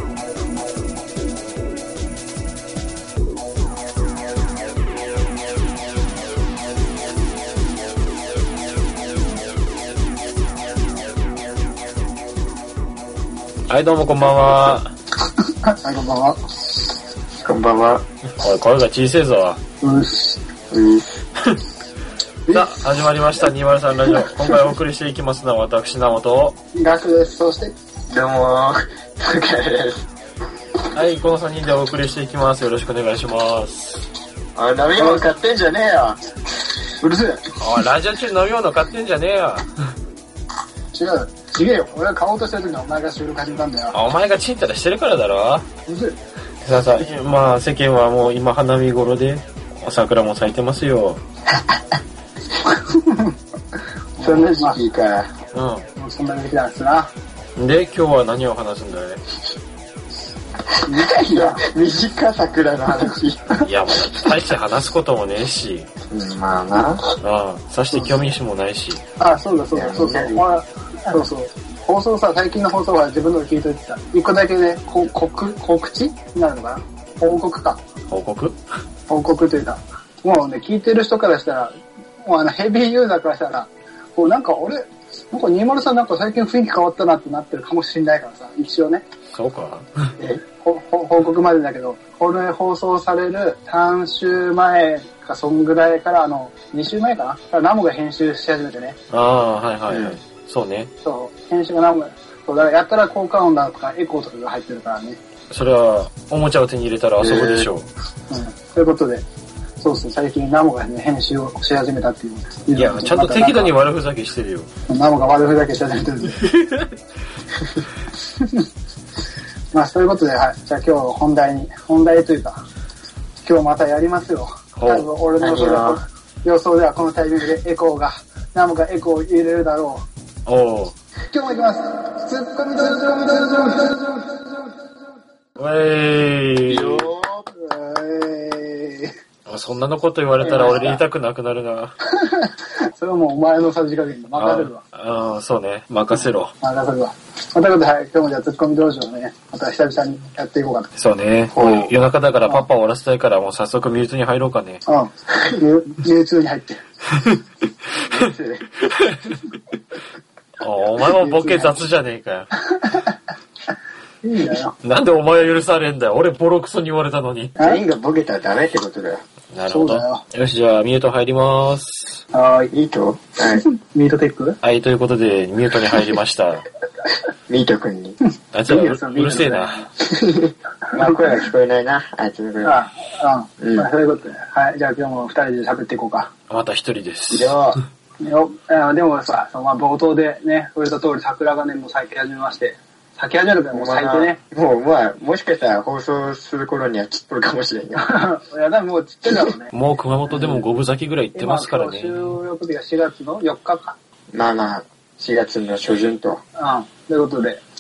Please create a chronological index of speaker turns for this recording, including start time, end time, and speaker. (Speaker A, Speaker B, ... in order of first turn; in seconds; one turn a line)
Speaker A: 13.7-14.9
Speaker B: 15.5-16.4
Speaker C: 17.4-18.0
Speaker A: 18.4-19.6
Speaker B: 19.8-20.4
Speaker C: 20.7-21.3
Speaker B: 22.5-22.9
Speaker A: 22.5-26.6
Speaker B: 26.7-27.7
Speaker C: 28.1-30.1
Speaker A: 30.9-34.1
Speaker C: 34.6-36.2
Speaker B: 35.0-35.3
Speaker B: 37.0-37.4
Speaker A: 37.6-39.7
Speaker B: 40.9-44.0
Speaker A: 43.9-45.7
Speaker B: 45.9-46.1
Speaker A: 46.6-51.2
Speaker B: 52.7-53.4
Speaker B: 54.2-54.8
Speaker C: 54.2-55.3
Speaker A: 55.5-55.9
Speaker B: 56.0-57.1
Speaker A: 57.6-59.2
Speaker B: 60.9-61.6
Speaker C: 60.9-64.4
Speaker A: 63.6-65.9
Speaker C: 66.1-67.0
Speaker A: 67.2-69.0
Speaker B: 69.2-77.8
Speaker C: 69.7-70.5
Speaker A: 78.1-78.6
Speaker B: 79.1-89.0
Speaker A: 89.3-89.9
Speaker B: 90.6-99.0
Speaker A: 99.1-100.9
Speaker C: 99.9-100.2
Speaker B: 101.0-105.2
Speaker A: 105.5-107.9
Speaker C: 107.2-107.7
Speaker B: 108.3-109.2
Speaker B: 109.8-113.8
Speaker A: 112.8-114.7
Speaker B: 114.9-116.4
Speaker A: 116.4-116.9
Speaker B: 119.7-122.6
Speaker B: 123.4-130.1
Speaker A: 124.8-125.1
Speaker C: 125.4-126.0
Speaker A: 130.5-130.9
Speaker B: 131.3-134.5
Speaker A: 135.6-137.1
Speaker C: 136.7-137.5
Speaker B: 137.6-139.1
Speaker A: 139.5-141.9
Speaker B: 140.4-141.0
Speaker B: 142.1-144.8
Speaker A: 144.4-146.5
Speaker B: 146.2-150.9
Speaker A: 151.0-154.8
Speaker C: 151.5-151.9
Speaker B: 154.9-156.8
Speaker C: 158.1-158.9
Speaker A: 160.6-162.5
Speaker B: 161.0-161.8
Speaker B: 162.6-163.2
Speaker B: 164.2-164.7
Speaker A: 164.8-167.6
Speaker C: 167.6-169.2
Speaker A: 169.5-172.2
Speaker B: 169.7-170.2
Speaker B: 172.3-172.7
Speaker C: 172.7-173.6
Speaker B: 173.6-174.6
Speaker A: 174.6-176.7
Speaker C: 177.5-178.2
Speaker A: 178.5-179.8
Speaker B: 178.7-179.9
Speaker C: 180.1-182.8
Speaker B: 181.0-181.4
Speaker B: 182.6-186.3
Speaker C: 183.6-183.9
Speaker A: 186.5-187.6
Speaker C: 187.3-187.8
Speaker B: 188.2-194.4
Speaker C: 193.7-198.1
Speaker B: 198.0-199.7
Speaker A: 199.7-202.4
Speaker C: 200.3-200.7
Speaker B: 201.3-204.0
Speaker C: 204.3-206.4
Speaker B: 206.6-207.6